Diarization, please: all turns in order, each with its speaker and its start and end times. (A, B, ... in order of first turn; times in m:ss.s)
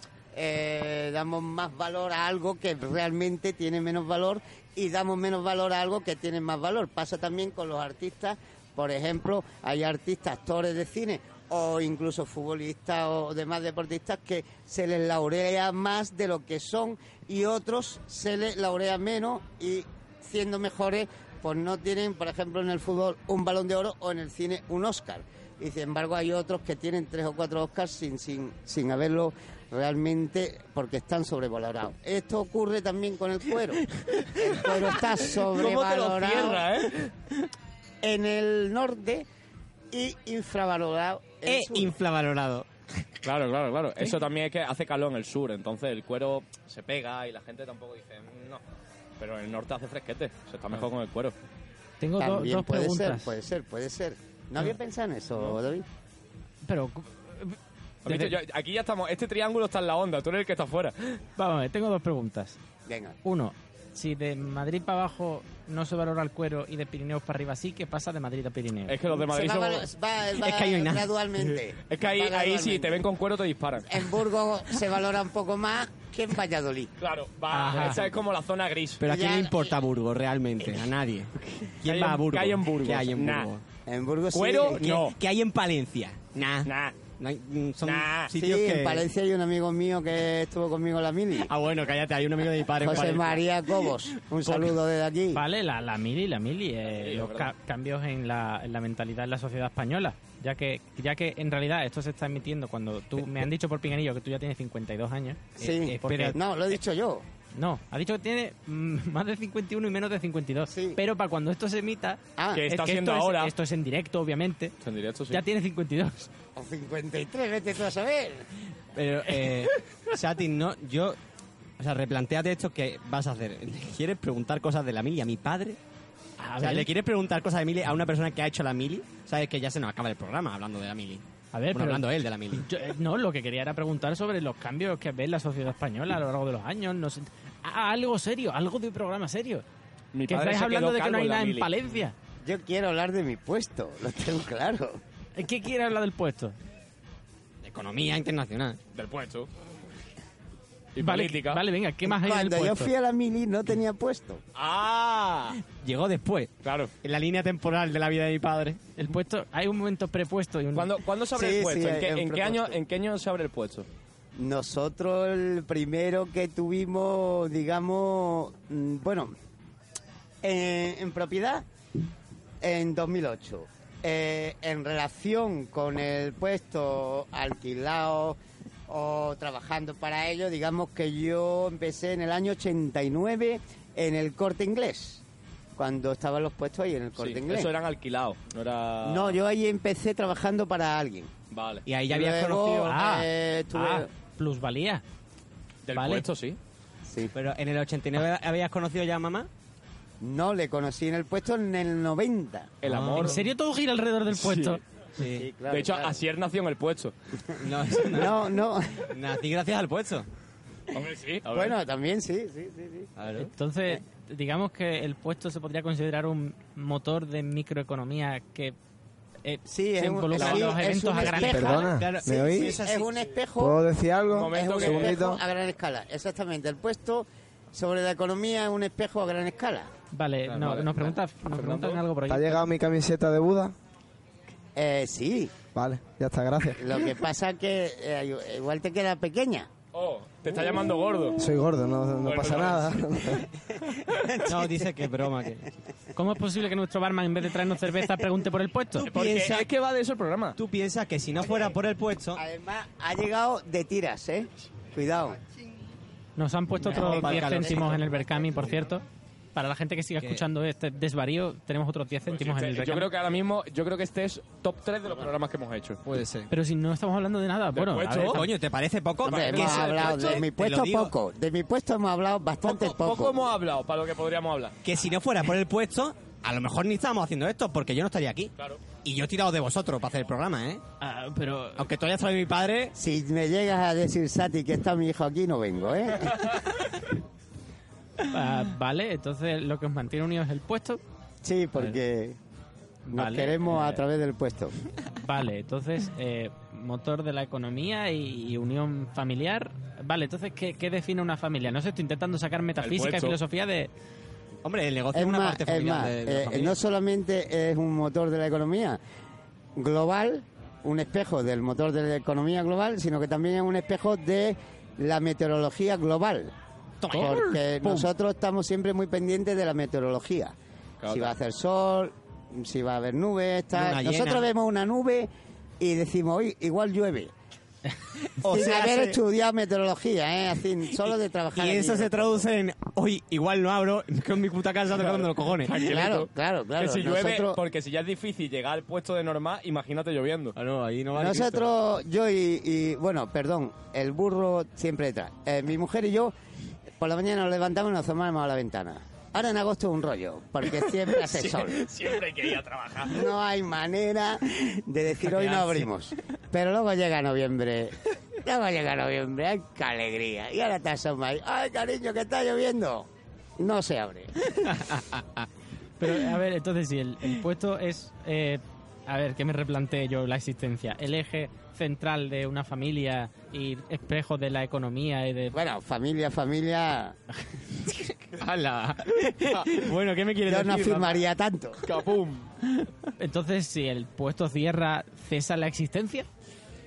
0:00.3-0:36.6 A
0:35.3-0:37.1 B
0:38.0-0:39.2 A
0:39.9-0:41.9 A
0:41.4-0:42.7 C
0:43.2-0:48.6 B
0:49.2-0:51.3 B
0:52.0-0:53.3 D
0:52.2-0:55.8 A
0:56.6-0:58.4 D
0:58.0-1:01.2 B
1:01.4-1:02.6 D
1:02.8-1:03.2 A
1:03.2-1:09.0 D
1:08.9-1:09.8 B
1:09.1-1:13.0 A
1:10.3-1:11.6 C
1:11.9-1:14.2 B
1:13.9-1:16.9 A
1:17.0-1:19.0 B
1:17.5-1:18.0 D
1:19.0-1:23.6 C
1:19.0-1:19.8 A
1:21.6-1:23.5 B
1:23.8-1:24.8 A
1:24.3-1:25.2 B
1:24.7-1:29.1 C
1:26.6-1:27.0 B
1:27.8-1:28.3 B
1:28.3-1:31.5 A
1:31.4-1:33.9 C
1:32.8-1:35.4 A
1:35.3-1:46.4 D
1:36.8-1:37.5 B
1:45.6-1:46.4 C
1:45.6-1:47.2 A
1:47.5-1:54.7 D
1:50.7-1:51.0 A
1:52.4-1:52.6 A
1:52.5-1:53.5 B
1:54.8-1:55.4 B
1:55.3-1:56.3 D
1:56.6-1:58.5 A
1:58.9-2:01.2 C
1:59.3-1:59.7 D
2:01.8-2:05.8 C
2:06.4-2:06.9 D
2:06.6-2:12.7 C
2:11.5-2:19.6 D
2:20.1-2:21.7 B
2:20.3-2:22.1 D
2:22.4-2:25.0 A
2:25.4-2:26.5 D
2:27.6-2:28.8 C
2:28.9-2:29.5 B
2:30.9-2:31.6 B
2:31.0-2:32.9 D
2:32.0-2:34.4 A
2:34.5-2:35.6 B
2:35.7-2:36.5 C
2:36.6-2:36.9 B
2:37.0-2:38.8 C
2:39.0-2:40.9 D
2:40.7-2:43.9 B
2:41.3-2:42.8 A
2:44.4-2:49.3 A
2:50.4-2:51.6 A
2:52.6-2:58.4 A
2:58.9-3:05.2 A
3:05.8-3:07.7 A
3:07.2-3:09.4 B
3:09.0-3:11.3 A
3:11.5-3:11.8 B
3:11.8-3:13.0 C
3:12.1-3:14.1 A
3:12.8-3:15.0 D
3:15.8-3:16.6 B
3:15.9-3:16.2 D
3:17.0-3:17.3 A
3:17.3-3:19.5 C
3:20.2-3:22.7 A
3:22.8-3:23.4 B
3:22.8-3:23.4 C
3:23.2-3:24.8 D
3:24.3-3:24.8 B
3:25.2-3:25.5 C
3:25.3-3:26.2 A
3:25.7-3:27.1 B
3:27.6-3:30.3 C
3:28.1-3:29.1 A
3:30.9-3:31.8 B
3:31.5-3:33.1 A
3:33.2-3:33.5 C
3:33.4-3:38.7 D
3:39.4-3:41.8 D
3:39.7-3:43.8 A
3:40.4-3:43.1 C
3:41.3-3:42.8 E
3:43.6-3:45.4 E
3:44.3-3:45.2 B
3:44.4-3:49.9 A
3:50.1-3:52.7 D
3:50.5-3:52.0 B
3:52.3-3:53.7 E
3:54.8-3:55.5 A
3:55.7-3:57.0 E
3:56.8-3:59.7 A
3:59.9-4:01.4 B
4:01.4-4:03.4 E
4:02.2-4:03.2 B
4:03.4-4:05.1 A
4:04.4-4:05.7 C
4:06.1-4:09.1 D
4:09.0-4:09.7 C
4:09.0-4:10.6 B
4:10.6-4:12.4 C
4:12.4-4:15.4 A
4:16.4-4:19.0 D
4:16.8-4:18.0 C
4:16.9-4:18.7 A
4:19.5-4:23.1 D
4:20.2-4:20.4 C
4:22.3-4:26.0 B
4:26.0-4:26.5 C
4:26.5-4:28.5 D
4:27.7-4:28.4 B
4:28.3-4:31.1 C
4:29.2-4:33.5 A
4:29.3-4:30.4 B
4:32.6-4:34.8 B
4:34.8-4:38.5 C
4:39.0-4:40.8 C
4:41.0-4:41.8 D
4:41.8-4:42.9 C
4:42.9-4:46.6 A
4:48.2-4:51.0 D
4:51.4-4:52.4 A
4:53.1-4:54.0 D
4:53.1-4:54.7 A
4:55.2-5:03.9 D
5:02.8-5:03.4 B
5:04.6-5:06.8 C
5:05.1-5:09.0 A
5:09.8-5:16.5 A
5:17.0-5:17.5 C
5:17.1-5:18.1 D
5:17.1-5:20.5 A
5:21.0-5:21.3 B
5:21.1-5:27.3 A
5:23.7-5:24.5 C
5:28.4-5:29.2 C
5:28.4-5:32.4 A
5:31.5-5:35.8 C
5:34.9-5:40.6 B
5:35.7-5:37.6 A
5:40.5-5:41.7 C
5:41.2-5:46.3 A
5:47.0-5:51.8 A
5:51.2-5:53.2 B
5:53.1-6:03.1 A
5:55.2-5:55.8 C
6:03.6-6:04.5 A
6:04.6-6:05.5 C
6:06.0-6:15.6 D
6:15.5-6:17.2 A
6:18.3-6:21.2 C
6:20.4-6:21.8 A
6:21.8-6:22.5 B
6:23.2-6:26.3 D